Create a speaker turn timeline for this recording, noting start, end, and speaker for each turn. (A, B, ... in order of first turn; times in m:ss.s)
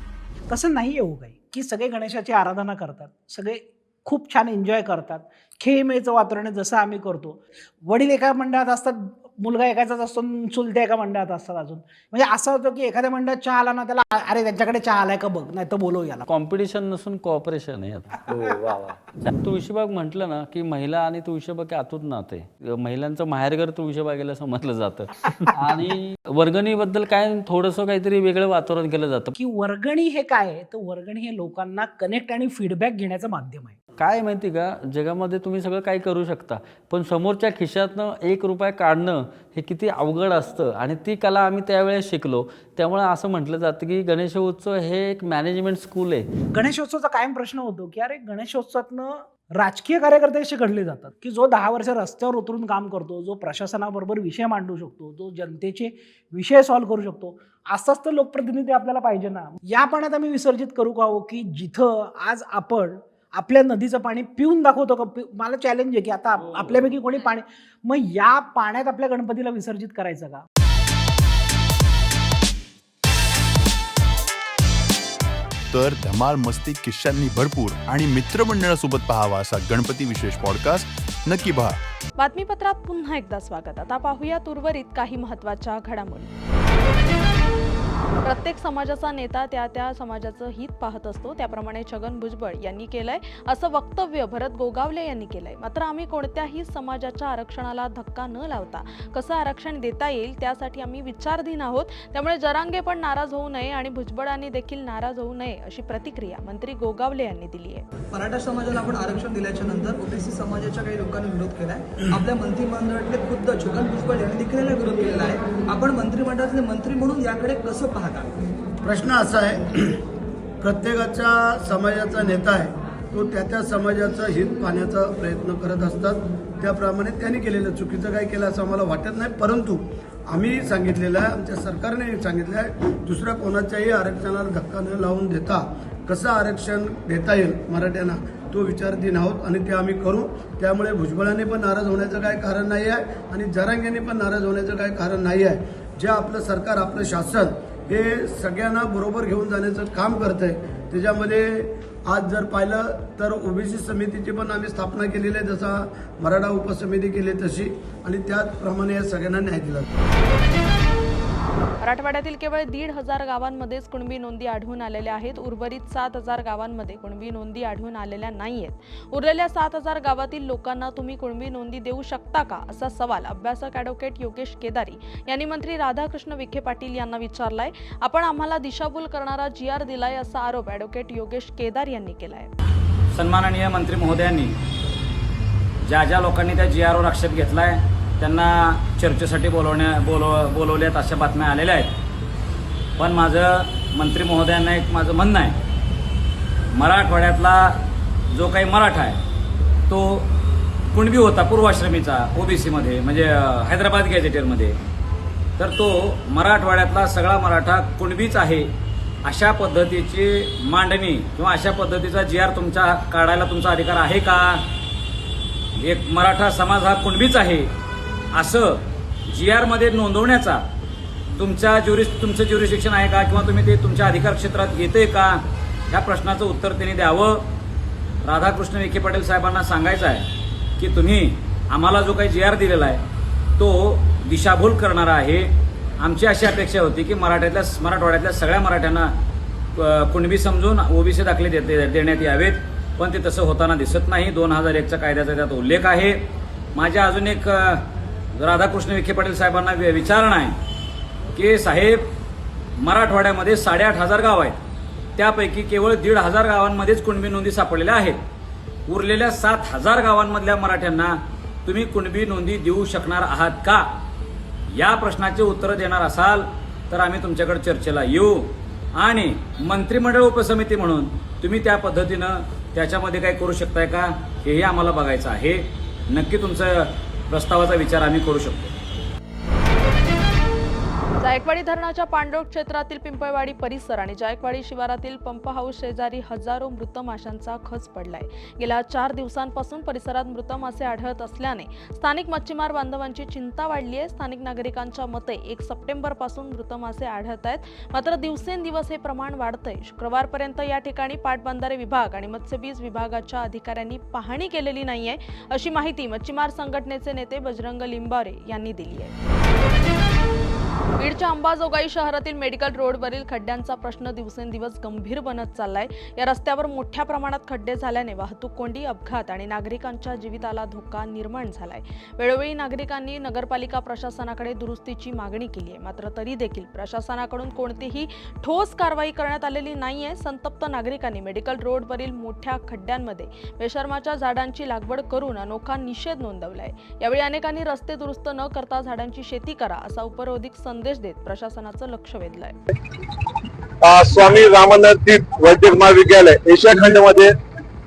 0:00.5-0:16.2 A
0:16.3-0:25.1 B
0:25.6-0:29.3 B
0:29.4-0:33.7 A
0:34.0-0:46.3 B
0:46.5-1:10.4 A
1:15.7-1:21.8 C
1:22.2-1:26.3 D
1:28.2-1:47.8 D
1:48.1-1:58.3 E
1:58.8-2:00.0 F
2:00.6-2:39.8 F
2:41.8-3:02.5 D
3:03.1-3:04.5 G
3:05.8-3:11.9 G
3:13.0-3:15.6 G
3:16.7-3:17.8 G
3:18.3-3:19.2 G
3:19.9-3:20.3 G
3:20.9-3:24.8 G
3:25.6-3:28.7 G
3:29.2-3:34.6 G
3:35.8-3:37.7 G
3:38.3-3:40.6 G
3:41.4-3:47.4 G
3:48.2-3:50.3 G
3:50.8-3:53.0 G
3:53.6-3:59.1 G
3:59.8-4:06.2 G
4:06.7-4:07.8 G
4:08.4-4:10.6 G
4:11.3-4:12.1 G
4:12.8-4:14.6 G
4:15.2-4:18.2 G
4:18.9-4:23.9 G
4:24.7-4:38.7 G
4:41.2-5:09.1 D
5:11.0-5:42.6 D
5:43.8-5:47.3 H